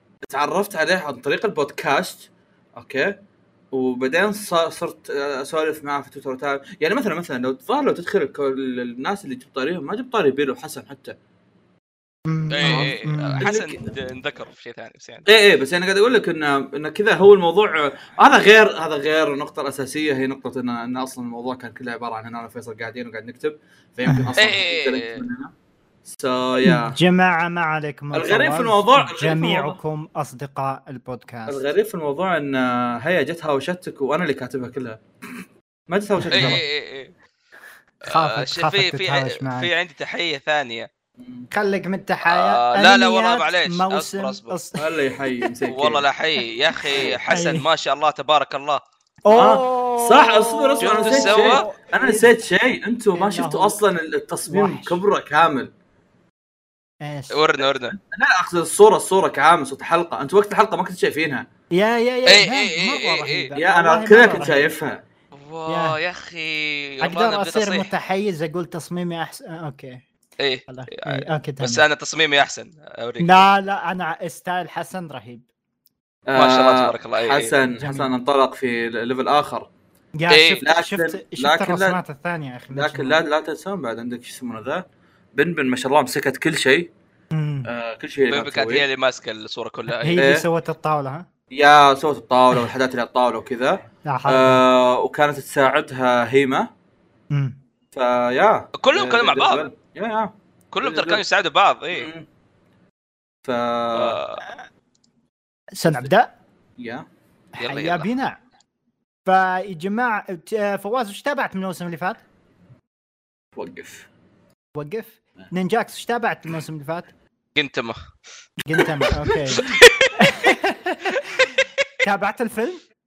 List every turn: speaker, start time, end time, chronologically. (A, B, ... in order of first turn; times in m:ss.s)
0:00.2-0:03.2 A
0:03.7-0:11.2 A
0:12.3-0:13.4 B
0:12.5-0:15.3 C
0:12.6-0:14.0 A
0:15.3-0:25.5 A
0:24.1-0:24.3 B
0:24.4-0:25.2 C
0:26.1-0:27.0 A
0:26.6-0:31.6 B
0:28.1-0:29.8 A
0:31.5-0:35.0 A
0:35.9-0:36.6 A
0:36.2-0:36.6 B
0:36.3-0:37.1 C
0:38.0-0:39.7 B
0:38.1-0:40.9 C
0:41.2-0:41.5 A
0:41.5-0:44.9 B
0:42.2-0:44.6 C
0:44.8-0:46.0 A
0:45.7-0:48.8 C
0:46.8-0:47.7 B
0:46.9-0:47.2 A
0:49.2-0:52.3 B
0:49.3-0:55.7 A
0:50.8-0:51.6 C
0:53.2-0:53.8 B
0:54.5-0:55.0 B
0:57.0-0:57.4 B
0:57.3-0:58.0 C
0:58.0-1:01.5 A
1:01.7-1:04.7 B
1:02.3-1:03.5 C
1:03.6-1:05.0 A
1:05.3-1:07.9 C
1:05.7-1:06.0 B
1:07.0-1:10.0 B
1:10.4-1:13.5 C
1:10.7-1:11.8 B
1:13.2-1:15.4 B
1:16.3-1:19.7 A
1:16.4-1:17.6 C
1:17.8-1:18.1 B
1:20.2-1:23.2 B
1:20.3-1:20.6 C
1:20.6-1:22.0 A
1:22.7-1:24.8 A
1:25.4-1:26.9 A
1:27.3-1:27.7 B
1:27.6-1:28.8 A
1:28.3-1:30.2 C
1:29.9-1:31.3 B
1:30.2-1:30.4 A
1:31.5-1:36.7 A
1:34.1-1:34.6 B
1:37.3-1:37.6 B
1:37.9-1:41.2 A
1:38.8-1:39.6 C
1:40.7-1:42.1 C
1:41.9-1:42.3 A
1:43.4-1:44.2 A
1:44.0-1:44.4 C
1:45.8-1:46.3 B
1:46.8-1:47.0 A
1:47.6-1:48.1 C
1:47.6-1:48.4 B
1:49.2-1:52.2 B
1:53.6-1:54.1 A
1:54.8-1:57.1 B
1:57.6-1:58.0 C
1:58.7-2:02.8 B
1:59.3-2:00.4 C